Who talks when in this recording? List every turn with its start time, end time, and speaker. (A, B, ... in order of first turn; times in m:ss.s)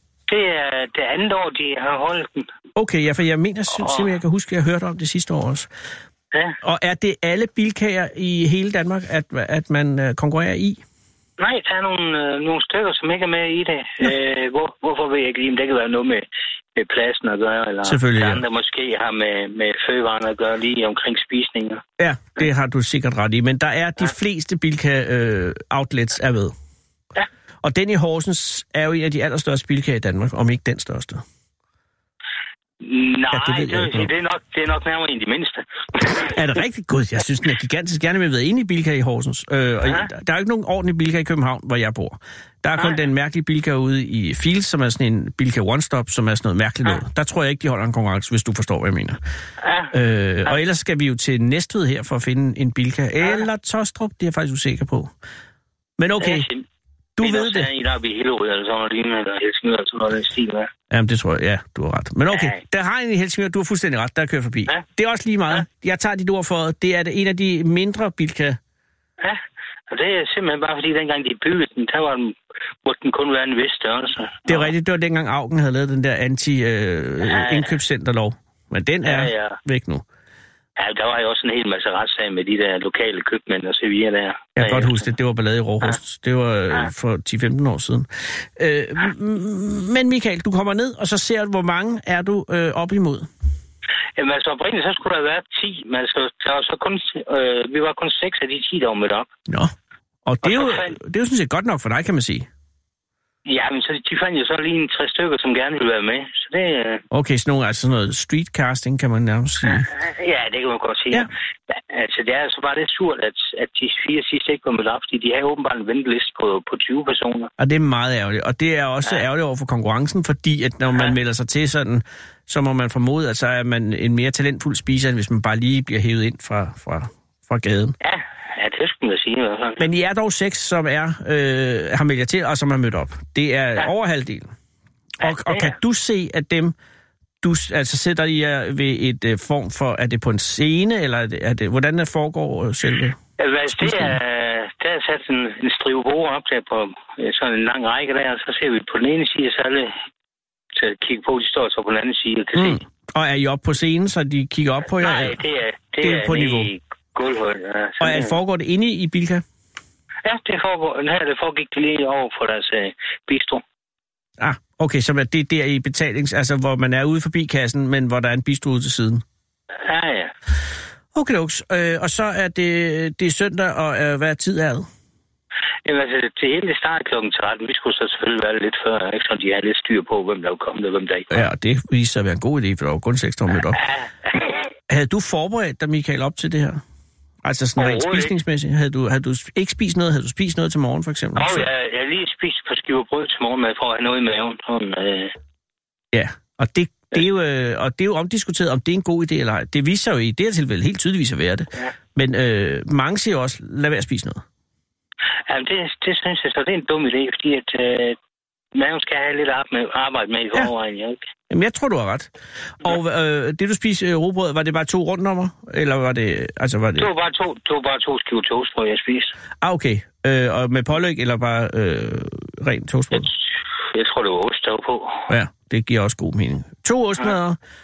0:00.3-0:02.5 A
0:02.8-0:05.7 B
0:03.8-0:04.1 A
0:06.6-0:10.8 B
0:11.4-0:16.2 A
0:16.8-0:21.8 A
0:17.8-0:18.4 B
0:22.0-0:26.5 B
0:27.6-0:31.2 B
0:32.8-0:36.3 A
0:33.3-0:34.1 B
0:36.1-0:49.2 B
0:49.6-0:49.9 A
0:49.9-0:55.1 B
0:56.0-0:56.5 B
0:56.2-0:56.6 A
0:57.2-0:57.7 B
0:57.2-1:00.7 A
1:00.9-1:08.6 B
1:02.3-1:02.6 A
1:09.2-1:14.7 A
1:14.4-1:20.0 B
1:17.3-1:17.7 A
1:19.0-1:19.6 A
1:20.8-1:25.0 A
1:24.6-1:33.3 B
1:34.2-1:39.3 A
1:39.5-1:39.7 B
1:40.2-1:42.5 B
1:40.4-1:40.9 A
1:43.4-1:47.0 A
1:47.1-1:49.9 B
1:49.8-1:57.5 A
1:57.6-2:08.0 B
2:08.0-2:09.8 A
2:09.8-2:14.5 B
2:15.2-2:16.7 B
2:15.2-2:15.7 A
2:17.4-2:23.2 B
2:23.4-2:30.0 A
2:23.7-2:24.2 B
2:30.8-2:32.8 A
2:32.5-2:35.4 B
2:35.0-2:38.4 A
2:36.0-2:36.7 B
2:38.0-2:39.4 B
2:40.2-2:43.6 A
2:44.4-2:49.2 B
2:49.8-2:50.3 A
2:51.1-2:54.9 B
2:55.8-3:01.4 A
3:01.3-3:03.8 B
3:03.7-3:04.7 A
3:04.9-3:06.8 B
3:07.4-3:11.7 B
3:07.8-3:08.3 A
3:11.4-3:15.3 A
3:16.1-3:24.4 B
3:25.5-3:28.2 A
3:28.7-3:31.2 A
3:31.5-3:37.1 B
3:37.0-3:39.3 A
3:39.6-3:43.3 B
3:43.9-3:45.3 A
3:45.3-3:47.6 B